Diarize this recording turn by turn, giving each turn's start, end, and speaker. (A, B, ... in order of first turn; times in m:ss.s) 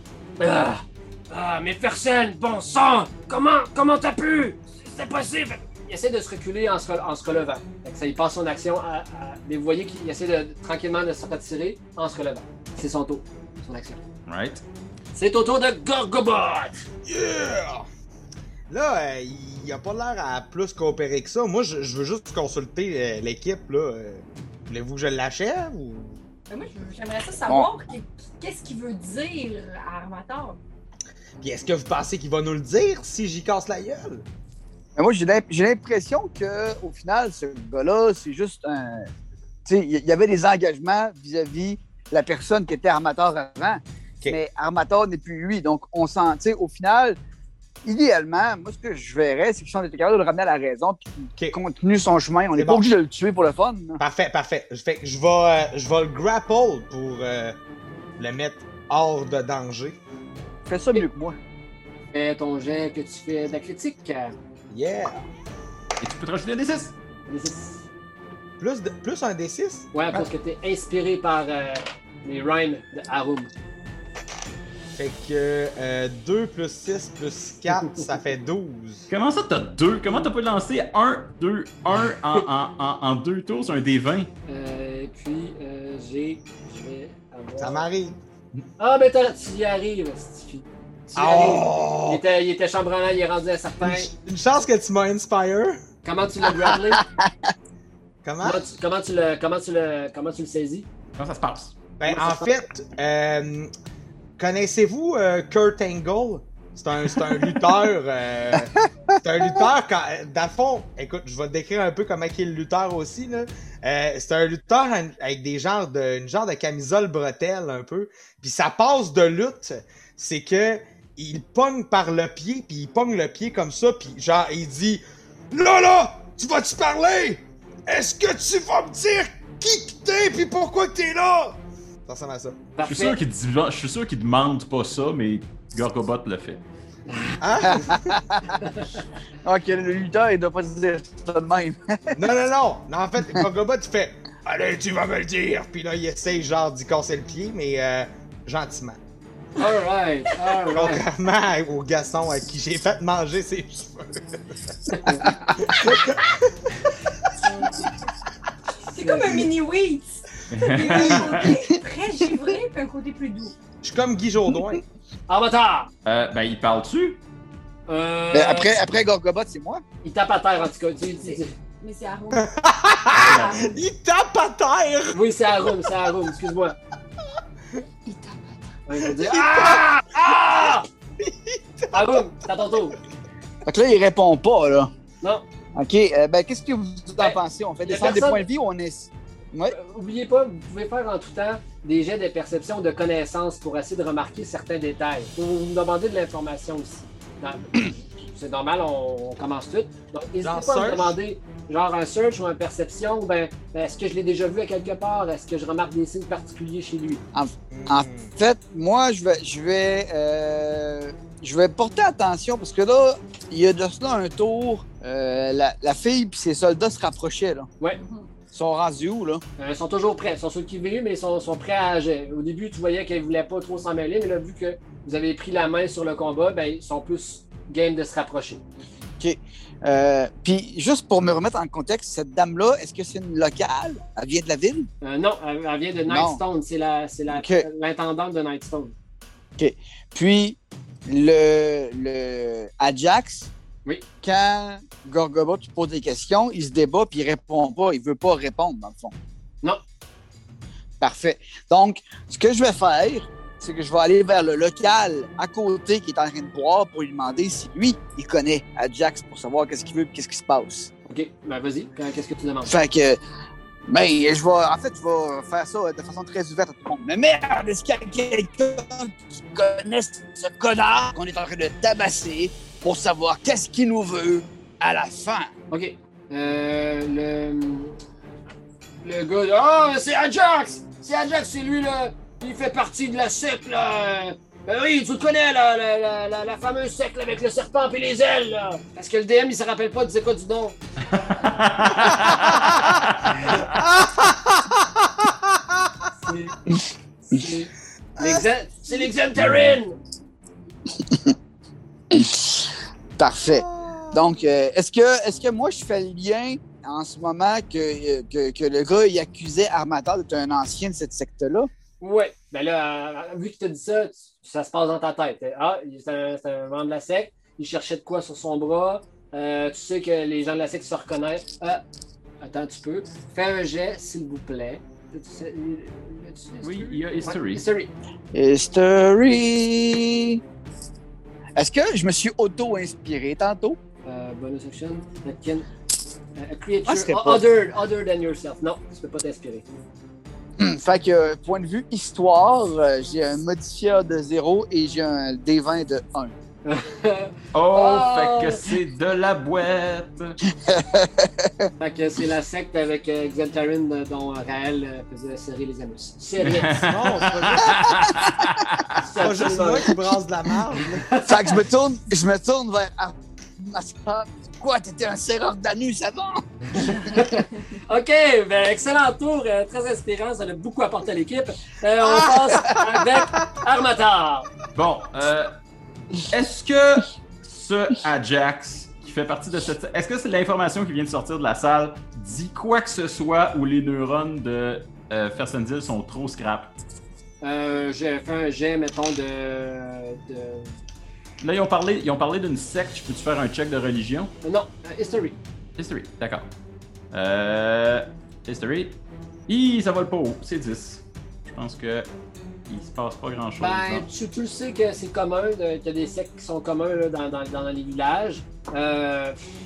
0:00.4-0:14.0 A
0:14.3-0:14.6 B
0:15.1-0:16.8 A
0:17.0-0:17.9 C
0:18.7-0:26.2 C
0:26.5-0:30.6 D
0:31.4-0:34.2 C
0:35.0-0:39.1 E
0:39.6-0:47.2 E
0:47.8-0:54.0 E
0:52.6-0:52.8 C
0:54.0-0:57.6 C
0:58.2-1:00.0 C
1:00.7-1:01.4 E
1:02.1-1:04.4 A
1:04.7-1:05.2 C
1:06.0-1:06.9 B
1:07.3-1:07.8 A
1:08.6-1:09.9 C
1:09.9-1:13.5 A
1:14.9-1:19.1 C
1:19.1-1:24.3 B
1:24.5-1:27.9 A
1:27.6-1:28.2 C
1:28.8-1:34.1 A
1:31.2-1:32.2 C
1:33.8-1:35.8 C
1:36.0-1:37.0 A
1:36.9-1:37.3 E
1:38.2-1:38.7 C
1:38.4-1:40.9 A
1:41.2-1:41.7 B
1:42.0-1:43.7 C
1:42.0-1:42.5 A
1:44.4-2:12.6 C
1:48.5-1:49.6 E
2:12.8-2:13.2 A
2:12.8-2:16.6 B
2:17.1-2:17.8 A
2:17.4-2:18.2 C
2:17.7-2:18.5 E
2:18.6-2:19.0 A
2:19.4-2:22.2 E
2:22.1-2:29.0 C
2:29.6-2:31.0 A
2:30.7-2:34.4 C
2:34.9-2:35.3 A
2:35.2-2:36.4 C
2:38.9-2:43.5 D
2:39.0-2:39.4 A
2:40.5-2:41.4 B
2:43.8-2:44.8 C
2:45.3-2:45.9 A
2:46.0-2:47.2 B
2:47.9-2:48.8 A
2:48.3-2:49.8 E
2:50.0-2:51.6 A
2:51.2-2:52.5 D
2:52.3-2:55.2 C
2:53.1-2:53.8 D
2:53.2-2:53.7 B
2:55.1-2:56.8 A
2:58.0-2:58.7 D
2:58.9-3:00.8 A
2:59.1-3:02.2 C
3:01.9-3:03.0 A
3:03.6-3:04.9 E
3:05.8-3:09.7 E
3:07.2-3:08.4 A
3:09.7-3:27.2 A
3:20.4-3:21.2 C
3:27.3-3:37.7 E
3:27.7-3:28.3 C
3:38.5-3:39.4 E
3:39.6-3:48.6 A
3:49.2-3:54.9 E
3:55.0-3:58.9 A
3:56.1-3:56.4 E
3:57.3-3:57.6 E
3:59.6-4:03.5 E
4:04.2-4:09.1 E
4:11.0-4:20.9 E
4:21.1-4:22.7 A
4:22.6-4:23.2 E
4:23.9-4:35.5 E
4:35.7-4:38.0 A
4:39.0-4:50.8 A
4:51.1-4:53.4 B
4:53.8-4:55.6 C
4:56.2-4:56.6 A
4:57.3-5:00.0 A
4:59.4-4:59.8 B
5:01.1-5:01.3 E
5:02.1-5:11.7 E
5:03.5-5:04.2 C
5:12.0-5:21.8 A
5:22.4-5:27.9 A
5:26.6-5:27.6 B
5:28.3-5:30.4 E
5:31.6-5:33.8 E
5:34.0-5:35.7 A
5:36.4-5:39.7 A
5:36.8-5:37.4 E
5:40.6-5:46.3 E
5:46.6-5:48.7 A
5:47.5-5:50.4 B
5:50.6-5:51.7 E
5:51.8-5:56.8 A
5:56.4-5:58.9 B
5:56.8-5:58.0 C
5:57.8-5:58.3 E
5:59.0-5:59.9 A
5:59.1-6:01.2 C
6:00.9-6:01.6 A
6:01.2-6:06.4 E
6:06.7-6:14.5 A
6:12.0-6:13.5 C
6:14.7-6:15.5 B
6:16.2-6:26.7 B
6:27.4-6:30.8 A
6:31.4-6:34.3 B
6:34.4-6:35.4 A
6:35.8-6:36.5 B
6:37.1-6:42.1 B
6:42.7-6:44.1 B
6:43.6-6:49.4 A